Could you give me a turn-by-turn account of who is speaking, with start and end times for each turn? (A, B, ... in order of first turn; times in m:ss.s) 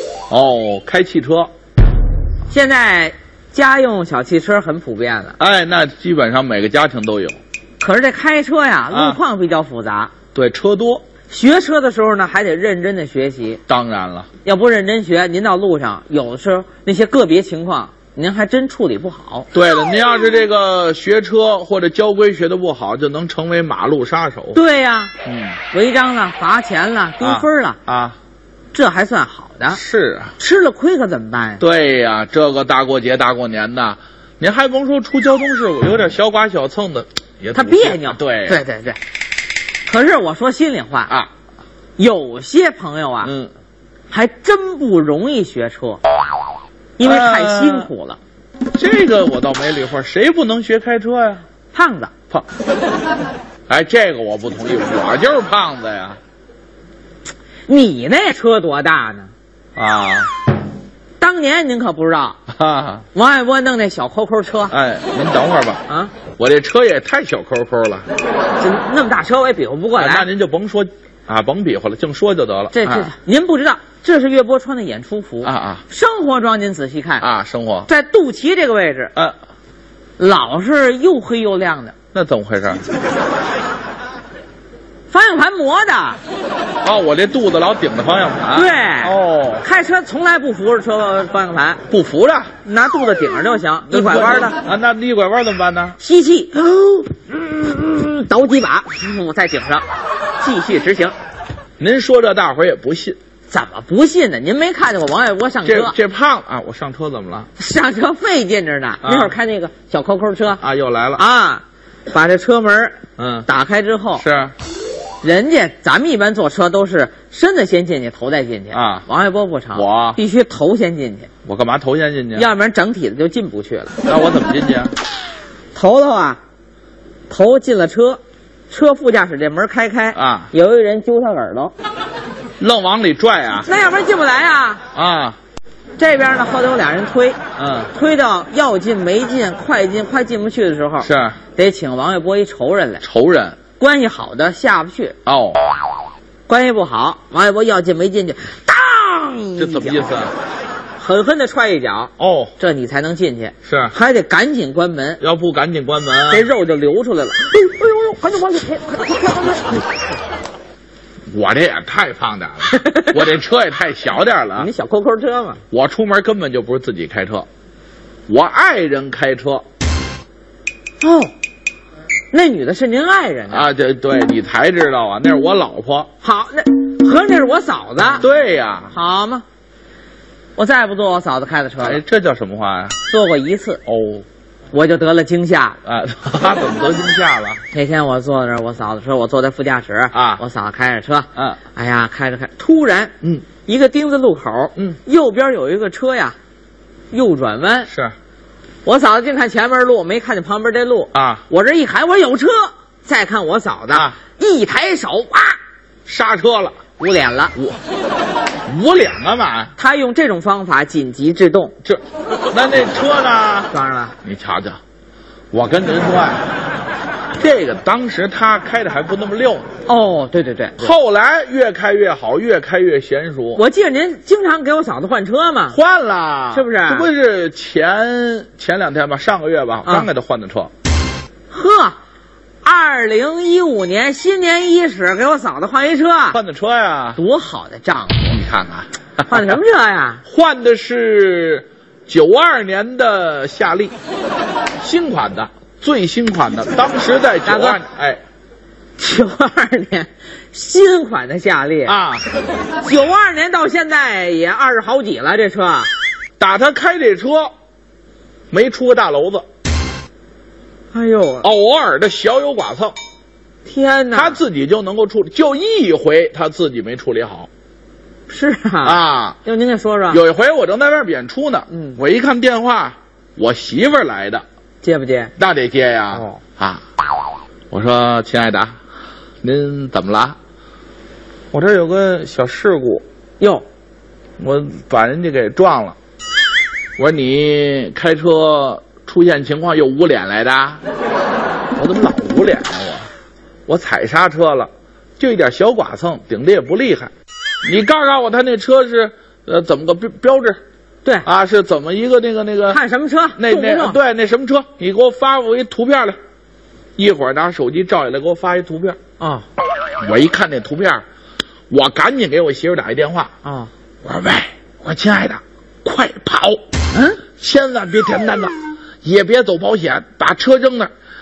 0:00.3-0:01.5 A
0:02.5-0:05.4 B
0:05.4-0:07.4 A
0:07.8-0:10.1 B
0:08.9-0:09.2 A
0:10.3-0:11.0 A
0:11.3-0:13.6 B
0:13.7-0:14.3 A
0:14.4-0:19.5 B
0:19.5-0:24.6 A
0:24.5-0:25.1 B
0:25.2-0:25.6 A
0:25.7-0:27.8 B
0:27.2-0:28.2 A
0:28.7-0:29.8 B
0:29.7-0:30.3 A
0:30.4-0:31.6 B
0:31.6-0:38.6 A
0:37.5-0:39.0 B
0:39.9-0:41.1 B
0:42.0-0:43.3 B
0:43.2-0:43.5 A
0:44.1-0:46.0 B
0:47.0-0:48.2 B
0:47.0-0:47.9 A
0:48.7-0:51.4 A
0:51.7-0:52.1 B
0:53.7-0:56.2 A
0:57.7-0:59.3 B
0:59.8-1:00.3 A
1:01.2-1:02.4 B
1:02.5-1:03.0 A
1:03.1-1:04.7 B
1:04.7-1:05.8 A
1:05.9-1:06.1 B
1:06.4-1:08.0 A
1:08.6-1:10.3 B
1:09.9-1:13.1 A
1:12.7-1:17.2 B
1:15.4-1:15.8 A
1:17.2-1:17.9 A
1:17.9-1:19.1 B
1:20.2-1:21.9 B
1:22.1-1:22.8 A
1:25.1-1:26.2 B
1:26.8-1:29.7 A
1:28.5-1:31.8 B
1:31.9-1:32.5 A
1:32.6-1:34.6 B
1:33.9-1:36.0 A
1:36.0-1:39.8 B
1:40.4-1:41.1 B
1:41.8-1:43.2 A
1:43.5-1:46.0 B
1:45.6-1:47.5 A
1:47.6-1:50.6 B
1:49.0-1:49.4 A
1:50.6-1:51.2 A
1:51.2-1:54.2 B
1:53.2-1:53.5 A
1:54.2-1:54.5 A
1:55.2-2:01.3 B
1:58.7-1:59.0 A
1:59.7-2:00.2 A
2:01.4-2:02.5 A
2:02.3-2:03.9 B
2:04.0-2:04.9 A
2:05.7-2:06.4 B
2:07.3-2:08.2 B
2:08.7-2:11.7 B
2:10.1-2:10.5 A
2:12.6-2:13.7 A
2:13.6-2:14.8 B
2:14.9-2:15.4 A
2:16.0-2:17.4 B
2:17.6-2:17.9 A
2:17.9-2:23.0 B
2:21.0-2:21.4 A
2:23.0-2:23.6 A
2:23.8-2:25.1 B
2:25.2-2:25.6 A
2:26.5-2:30.1 B
2:29.6-2:30.3 A
2:31.0-2:35.2 B
2:32.2-2:32.5 A
2:33.6-2:33.9 A
2:35.2-2:36.5 A
2:36.3-2:40.0 B
2:41.3-2:44.7 A
2:42.7-2:43.3 B
2:44.6-2:45.6 B
2:45.7-2:47.4 A
2:48.3-2:49.6 A
2:51.0-2:51.3 B
2:52.3-2:53.7 B
2:53.5-2:56.1 A
2:56.2-2:58.2 B
2:58.2-2:58.9 A
2:58.9-2:59.4 B
3:00.6-3:02.0 B
3:01.8-3:02.9 A
3:03.1-3:03.8 B
3:03.8-3:04.2 A
3:04.7-3:05.8 B
3:05.8-3:07.6 A
3:07.7-3:13.1 B
3:10.1-3:10.4 A
3:13.6-3:16.4 B
3:17.1-3:17.9 B
3:17.9-3:18.1 A
3:18.8-3:25.6 B
3:21.1-3:21.4 A
3:26.0-3:26.8 A
3:27.0-3:27.5 B
3:28.7-3:29.7 A
3:29.8-3:31.7 B
3:31.8-3:33.7 A
3:33.7-3:34.2 B
3:34.2-3:34.8 A
3:35.5-3:36.4 A
3:37.4-3:39.7 A
3:39.8-3:40.9 B
3:40.8-3:43.6 A
3:43.5-3:45.8 B
3:45.7-3:50.7 A
3:46.5-3:47.1 B
3:51.5-3:52.0 B
3:52.6-3:56.4 B
3:56.3-3:57.2 A
3:57.2-3:58.4 B
3:58.3-3:59.6 A
3:59.3-4:00.2 B
4:00.2-4:03.9 A
4:04.8-4:08.2 A
4:07.4-4:07.8 B
4:09.0-4:12.0 B
4:11.8-4:12.2 A
4:12.8-4:15.9 B
4:16.4-4:17.5 A
4:18.5-4:19.4 A
4:20.9-4:21.5 B
4:21.4-4:23.0 A
4:23.6-4:24.4 B
4:24.1-4:27.5 A
4:28.3-4:30.2 B
4:28.8-4:29.4 A
4:30.1-4:34.4 A
4:31.7-4:32.0 B
4:34.8-4:35.3 B
4:35.4-4:36.8 A
4:36.1-4:36.4 B
4:37.7-4:38.7 A
4:39.4-4:40.4 A
4:41.5-4:43.0 A
4:43.4-4:43.6 B
4:44.4-4:46.0 A
4:47.0-4:50.8 A
4:51.8-4:53.1 A
4:53.7-4:57.1 A
4:57.6-5:00.6 A
5:01.2-5:02.8 A
5:02.7-5:04.0 B
5:03.4-5:06.2 A
5:07.0-5:09.0 A
5:09.2-5:09.4 B
5:10.0-5:11.0 A
5:11.7-5:13.3 A
5:13.4-5:13.7 B
5:14.0-5:16.6 A
5:16.9-5:17.2 B
5:17.4-5:20.9 A